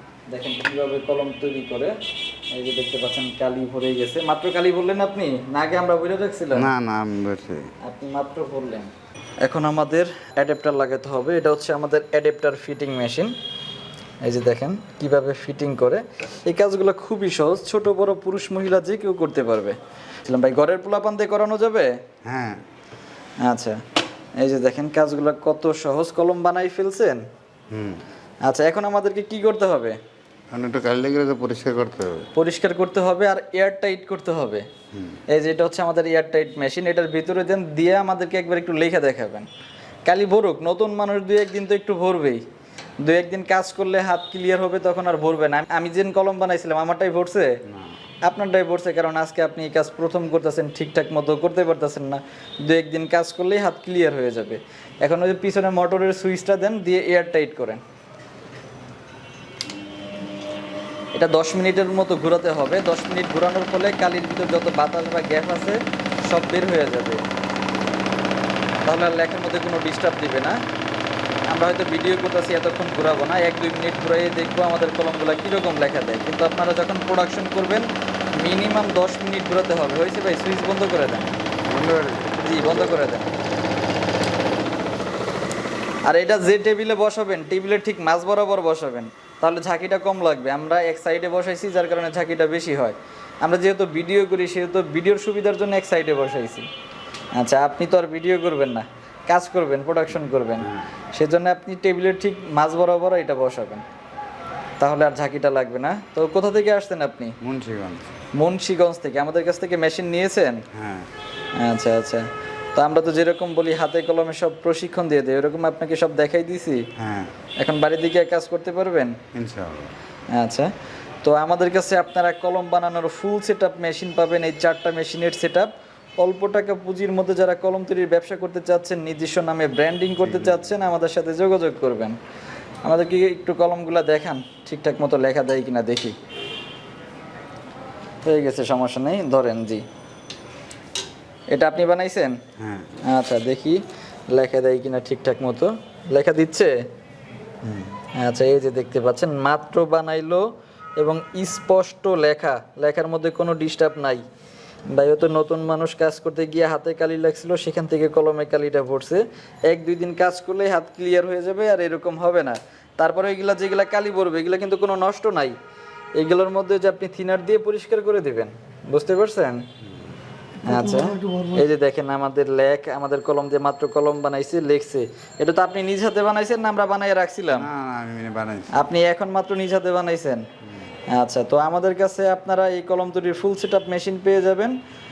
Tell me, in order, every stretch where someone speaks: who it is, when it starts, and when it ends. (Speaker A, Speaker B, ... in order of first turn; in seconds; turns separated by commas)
Speaker A: 0.3-1.9, Speaker A: 2.5-6.7, Speaker B: 6.5-7.7, Speaker A: 7.8-8.9, Speaker A: 9.4-13.3, Speaker A: 14.2-22.0, Speaker B: 22.2-22.6, Speaker A: 23.4-23.8, Speaker A: 24.4-27.2, Speaker B: 27.7-28.0, Speaker A: 28.4-30.0, Speaker B: 30.5-32.2, Speaker A: 32.3-34.6, Speaker A: 35.3-39.5, Speaker A: 40.0-42.4, Speaker A: 43.0-47.6, Speaker B: 47.7-47.9, Speaker A: 48.2-57.8, Speaker A: 61.1-67.2, Speaker A: 68.8-70.6, Speaker A: 71.5-81.3, Speaker B: 81.6-82.8, Speaker A: 82.4-83.3, Speaker A: 86.1-96.7, Speaker A: 97.3-103.8, Speaker B: 100.6-100.8, Speaker A: 104.8-107.3, Speaker B: 107.4-108.1, Speaker A: 108.3-110.6, Speaker B: 110.7-111.1, Speaker A: 111.6-116.9, Speaker B: 117.0-117.3, Speaker A: 117.6-119.2, Speaker B: 119.3-119.9, Speaker A: 120.3-120.7, Speaker A: 121.2-132.2, Speaker A: 132.8-136.2, Speaker A: 138.2-139.8, Speaker A: 141.5-142.4, Speaker B: 142.6-142.9, Speaker A: 143.0-146.8, Speaker A: 148.1-154.2, Speaker A: 154.9-165.6, Speaker A: 166.2-169.7, Speaker A: 170.6-177.7, Speaker B: 177.5-178.8, Speaker A: 178.7-180.4, Speaker A: 181.1-184.8